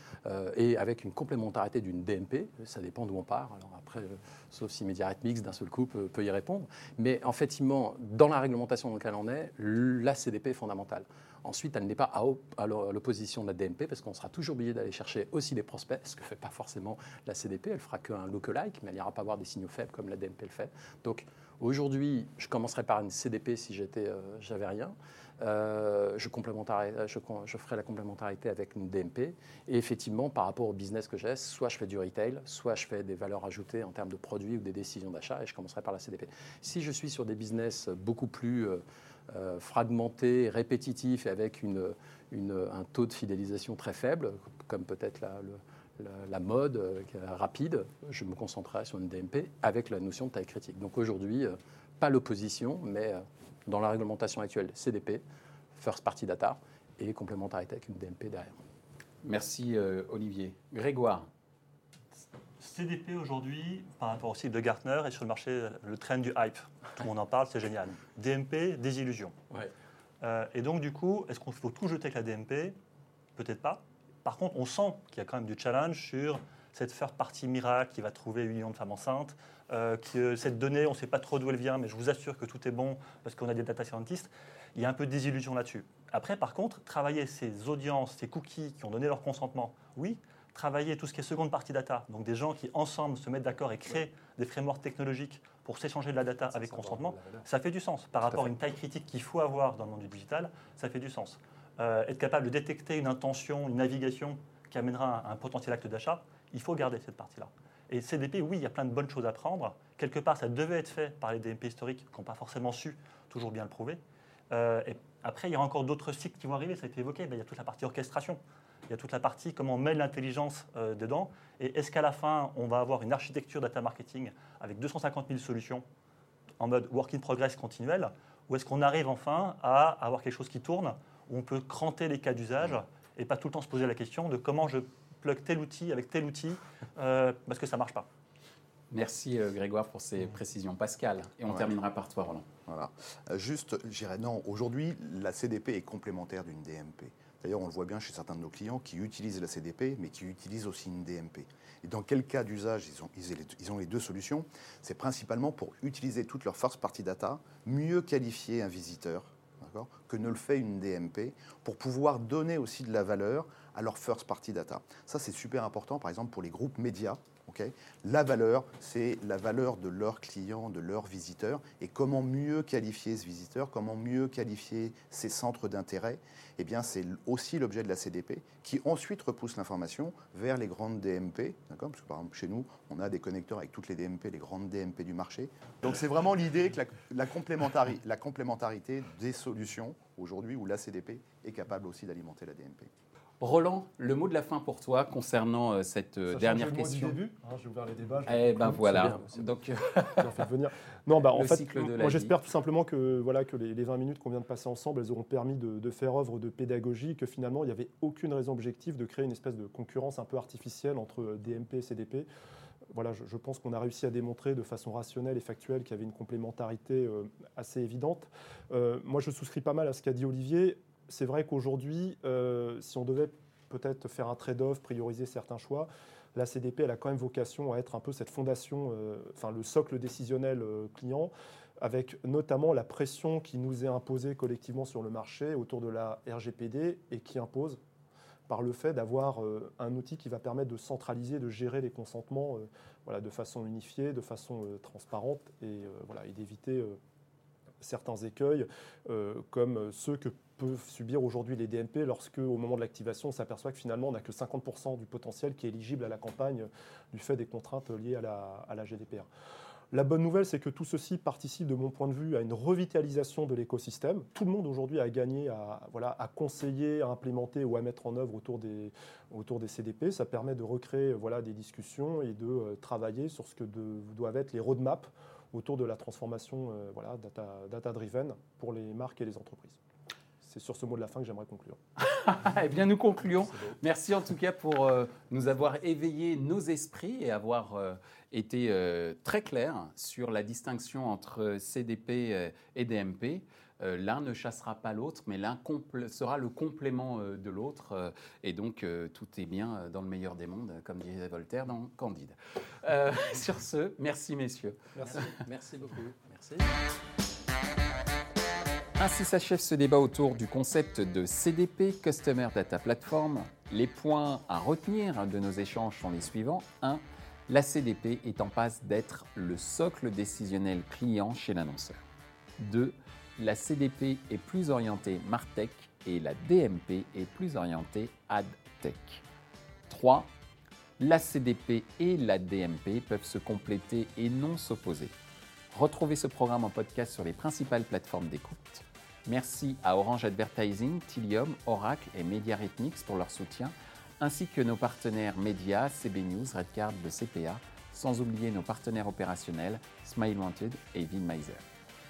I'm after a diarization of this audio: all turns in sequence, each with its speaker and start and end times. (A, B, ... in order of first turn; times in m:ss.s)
0:00.2-0:55.2 A
0:55.8-0:58.6 A
0:59.2-1:01.3 B
1:02.6-1:09.3 C
1:10.2-1:12.8 C
1:13.4-2:05.8 C
1:36.5-1:37.5 A
1:38.2-1:38.5 A
2:06.6-2:18.1 C
2:18.9-2:22.5 B
2:22.7-3:12.9 D
3:13.4-3:17.2 B
3:16.3-3:19.2 E
3:18.3-3:20.4 B
3:18.7-3:19.5 A
3:20.2-3:32.3 E
3:21.3-3:22.3 B
3:32.9-3:57.8 E
3:58.5-4:07.0 E
4:07.8-4:19.3 E
4:19.9-4:39.8 E
4:40.4-4:41.8 E
4:42.0-5:05.3 B
5:05.0-5:06.8 A
5:09.0-5:22.0 B
5:22.6-5:29.2 B
5:29.9-5:30.3 B
5:31.0-5:35.1 B
5:35.7-5:51.6 B